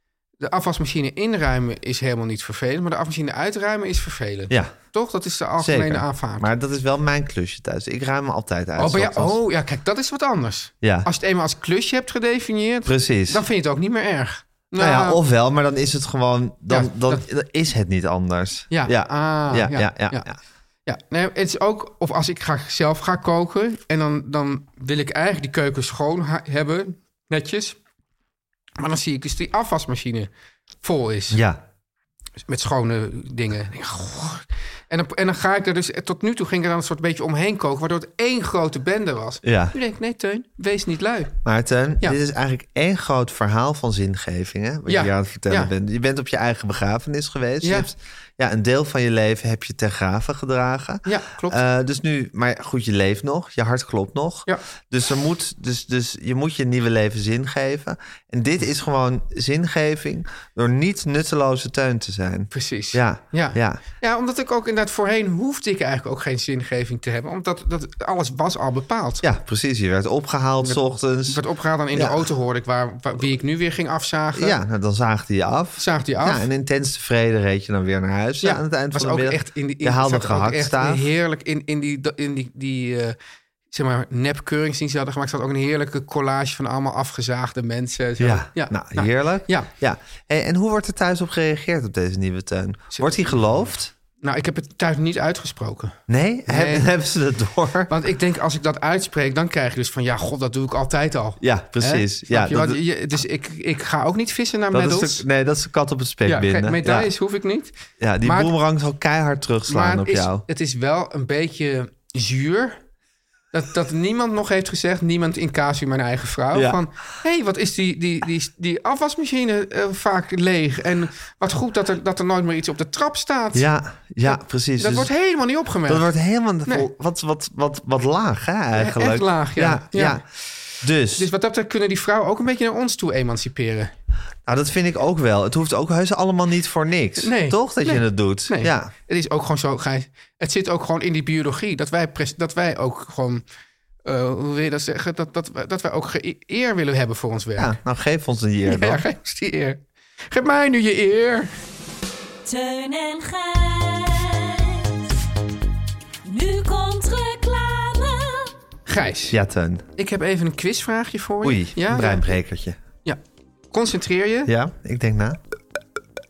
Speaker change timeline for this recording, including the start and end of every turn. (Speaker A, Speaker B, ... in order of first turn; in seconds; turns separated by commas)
Speaker A: 0.4-6.5, Speaker B: 4.5-4.8, Speaker B: 5.6-9.4, Speaker A: 8.8-15.2, Speaker B: 10.8-11.1, Speaker B: 12.8-13.4, Speaker B: 14.8-20.4, Speaker A: 16.7-17.2, Speaker A: 18.7-20.3, Speaker A: 20.9-27.8, Speaker A: 28.8-30.3, Speaker A: 30.8-31.4, Speaker B: 31.3-31.6, Speaker A: 32.5-41.3, Speaker B: 39.4-39.8, Speaker B: 41.5-63.8, Speaker A: 44.9-45.7, Speaker A: 47.6-47.9, Speaker A: 51.1-51.6, Speaker A: 62.5-69.2, Speaker B: 69.2-71.4, Speaker A: 70.6-74.6, Speaker B: 71.9-72.2, Speaker B: 74.3-81.1, Speaker A: 75.8-76.5, Speaker A: 78.4-83.2, Speaker A: 83.7-89.7, Speaker B: 88.2-93.9, Speaker A: 92.9-93.5, Speaker A: 94.2-96.9, Speaker B: 96.1-97.9, Speaker A: 97.9-105.2, Speaker B: 101.4-102.8, Speaker B: 104.7-107.1, Speaker A: 106.3-108.5, Speaker B: 108.0-110.4, Speaker A: 109.7-112.8, Speaker A: 113.5-123.7, Speaker B: 116.5-116.8, Speaker B: 123.5-125.1, Speaker A: 124.2-126.1, Speaker B: 125.9-130.2, Speaker A: 128.8-130.2, Speaker B: 130.8-131.3, Speaker A: 131.2-133.9, Speaker B: 134.5-138.9, Speaker A: 137.2-143.4, Speaker A: 144.1-147.7, Speaker B: 147.6-149.0, Speaker A: 148.7-151.5, Speaker C: 152.4-155.2, Speaker C: 156.2-158.5, Speaker A: 158.9-159.4, Speaker B: 159.3-159.8, Speaker A: 160.0-162.3, Speaker B: 161.4-162.8, Speaker A: 163.7-164.5, Speaker B: 164.5-165.4